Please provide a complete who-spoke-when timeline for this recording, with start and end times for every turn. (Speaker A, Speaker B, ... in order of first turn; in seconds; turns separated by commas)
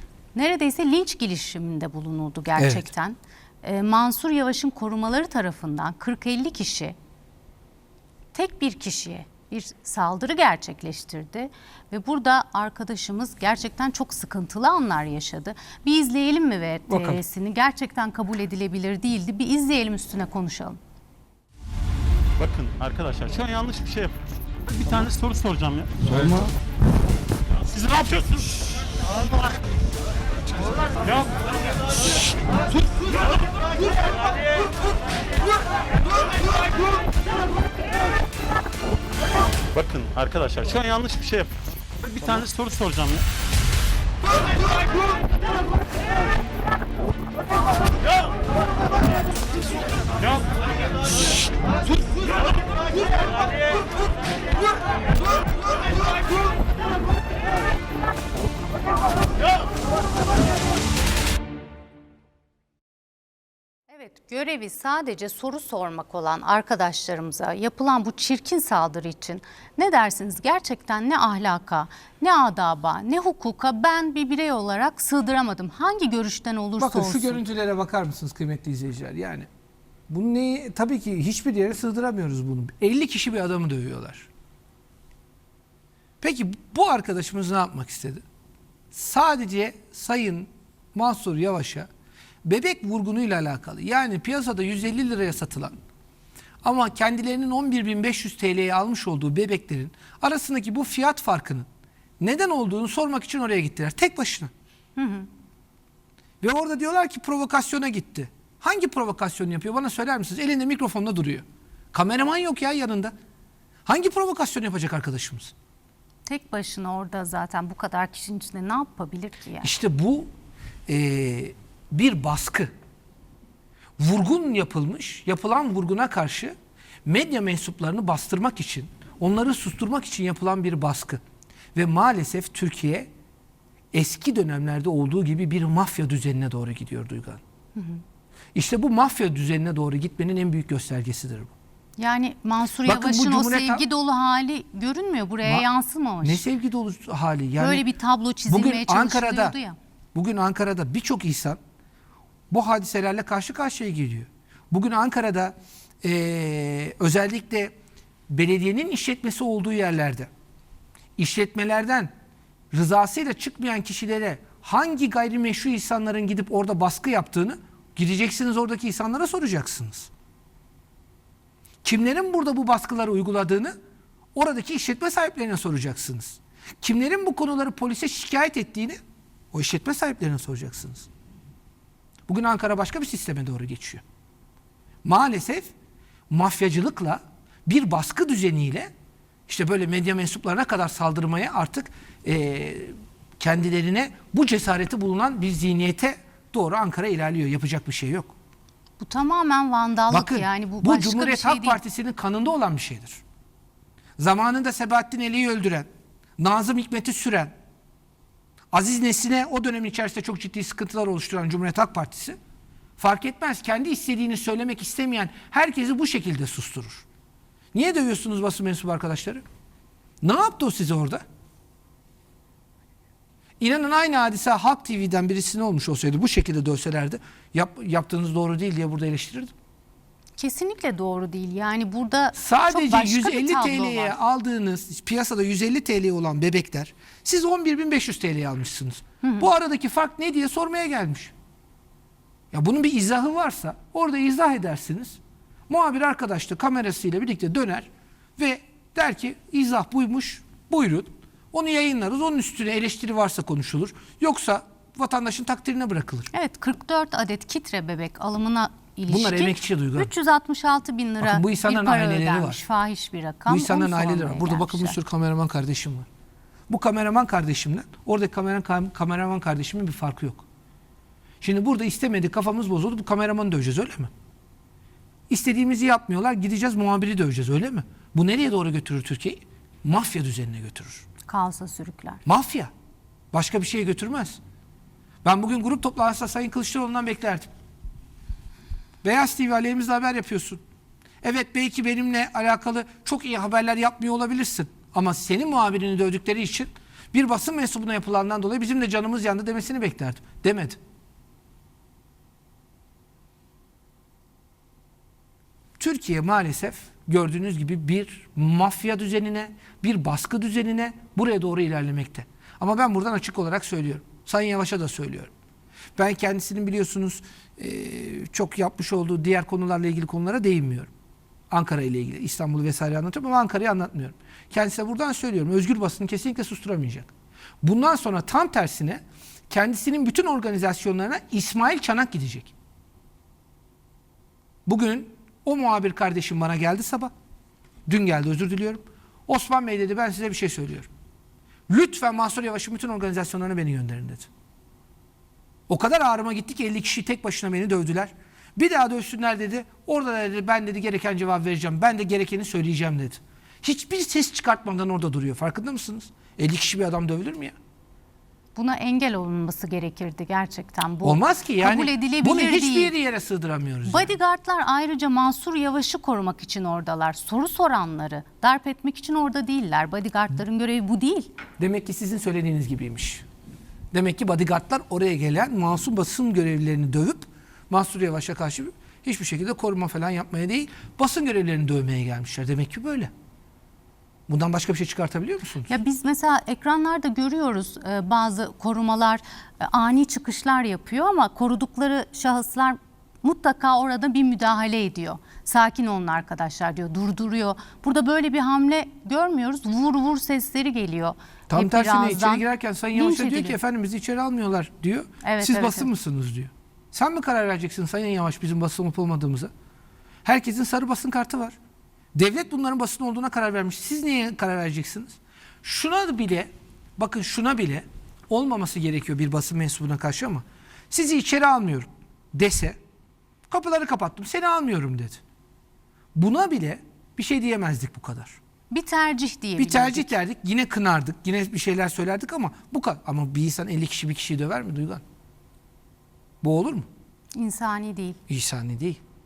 Speaker A: 0.3-7.0, Speaker B: 2.6-2.9, Speaker A: 8.3-20.8, Speaker B: 16.9-17.2, Speaker C: 22.4-26.3, Speaker C: 27.7-28.6, Speaker C: 31.0-31.4, Speaker C: 39.7-43.2, Speaker A: 63.9-77.4, Speaker B: 76.8-79.5, Speaker B: 80.1-84.3, Speaker B: 86.2-88.2, Speaker B: 88.9-91.9, Speaker B: 92.4-95.8, Speaker B: 96.6-101.7, Speaker B: 102.2-104.5, Speaker A: 105.0-105.3, Speaker B: 106.4-113.1, Speaker B: 113.8-115.5, Speaker A: 116.3-119.7, Speaker B: 119.6-120.3, Speaker B: 120.9-122.7, Speaker B: 124.0-131.2, Speaker B: 131.7-133.1, Speaker B: 133.9-137.4, Speaker A: 137.8-138.0, Speaker B: 138.5-141.5, Speaker A: 142.0-146.4, Speaker B: 142.8-143.8, Speaker B: 146.2-147.8, Speaker A: 147.6-149.8, Speaker B: 148.5-149.5, Speaker B: 150.1-151.6, Speaker B: 152.5-157.7, Speaker B: 158.3-160.3, Speaker B: 161.2-162.1, Speaker B: 162.7-170.1, Speaker B: 171.8-173.8, Speaker B: 174.3-179.0, Speaker B: 179.5-181.1, Speaker B: 182.3-184.0, Speaker B: 185.0-185.7, Speaker B: 186.3-188.9, Speaker B: 189.5-198.3, Speaker A: 199.0-201.8, Speaker B: 200.1-203.2, Speaker B: 204.2-207.5, Speaker B: 208.7-212.4, Speaker B: 213.0-217.1, Speaker B: 217.7-219.4, Speaker B: 220.2-221.2, Speaker B: 223.6-229.5, Speaker A: 230.4-234.2, Speaker B: 232.3-241.3, Speaker A: 239.2-239.5, Speaker B: 242.5-256.3, Speaker A: 256.3-265.0, Speaker B: 259.1-260.1, Speaker B: 261.2-262.6, Speaker B: 263.5-266.1, Speaker B: 266.7-270.4, Speaker B: 271.4-274.1, Speaker B: 275.3-281.1, Speaker A: 281.2-282.2, Speaker B: 282.2-282.7, Speaker B: 283.3-284.4, Speaker B: 285.2-287.5, Speaker B: 289.0-290.6, Speaker B: 291.2-300.8, Speaker B: 305.8-315.3, Speaker B: 315.9-320.9, Speaker B: 321.5-332.5, Speaker B: 334.6-337.1, Speaker B: 337.9-340.9, Speaker B: 341.7-344.3, Speaker B: 345.7-357.5, Speaker A: 358.6-362.9, Speaker B: 361.0-364.1, Speaker A: 363.9-371.3, Speaker B: 371.6-373.2, Speaker B: 373.9-383.1, Speaker B: 384.3-385.7, Speaker A: 385.7-403.6, Speaker B: 401.5-409.5, Speaker A: 405.2-405.9, Speaker B: 410.2-411.6, Speaker B: 412.1-422.8, Speaker B: 423.5-425.2, Speaker B: 426.1-428.4, Speaker A: 428.7-430.1, Speaker B: 429.6-435.0, Speaker B: 436.4-436.9, Speaker A: 437.3-438.2, Speaker B: 438.3-439.0